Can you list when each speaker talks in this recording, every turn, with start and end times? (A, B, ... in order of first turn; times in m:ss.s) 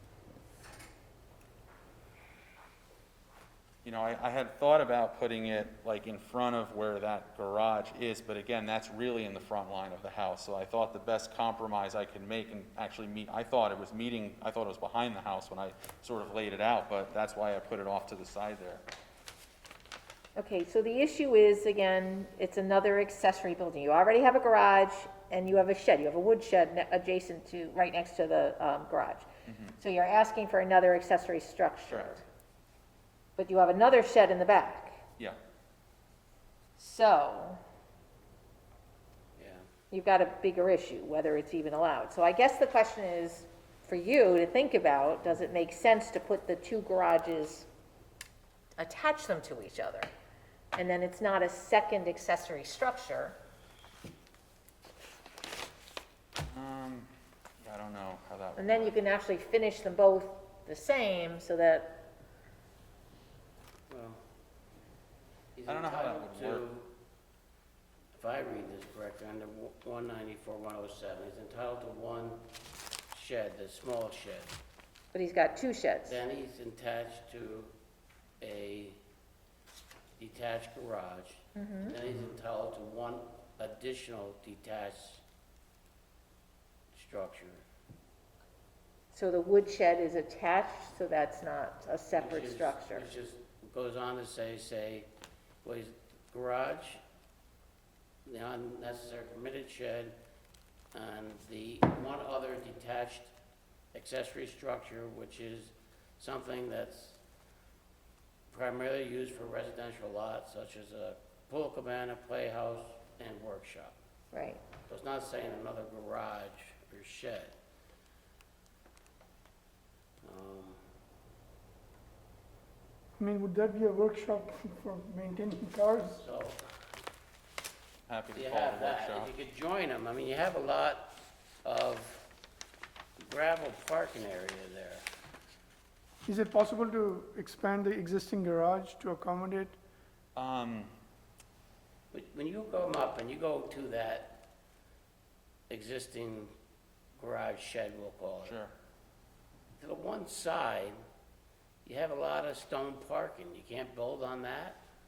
0:03.8-0:18.8 A
0:20.4-0:32.2 B
0:29.5-0:29.8 A
0:33.4-0:35.0 B
0:36.8-0:37.6 B
0:39.4-0:39.7 C
0:39.9-0:47.7 B
0:48.8-0:50.1 B
0:50.8-0:53.4 B
0:56.4-0:57.1 A
0:57.6-0:59.0 A
0:58.6-1:02.1 B
1:03.9-1:04.2 C
1:05.6-1:06.9 C
1:05.7-1:06.7 A
1:08.1-1:12.5 C
1:13.1-1:14.6 C
1:15.1-1:16.2 B
1:16.1-1:17.7 C
1:18.4-1:19.0 C
1:20.2-1:25.2 C
1:21.6-1:22.0 B
1:26.9-1:27.6 C
1:29.1-1:33.1 B
1:32.1-1:35.1 C
1:35.6-1:37.0 C
1:38.2-1:40.2 C
1:40.9-1:43.3 C
1:43.9-1:47.2 C
1:48.5-1:54.0 C
1:54.3-1:54.6 B
1:54.9-1:57.6 C
2:00.2-2:00.8 C
2:03.2-2:06.2 D
2:06.2-2:06.7 C
2:08.1-2:09.3 A
2:08.4-2:12.3 C
2:13.2-2:15.1 C
2:16.2-2:19.8 D
2:20.4-2:20.9 A
2:22.1-2:24.4 C
2:25.7-2:26.5 C
2:27.2-2:28.6 C
2:28.4-2:28.7 A
2:29.8-2:31.0 C
2:31.8-2:34.8 C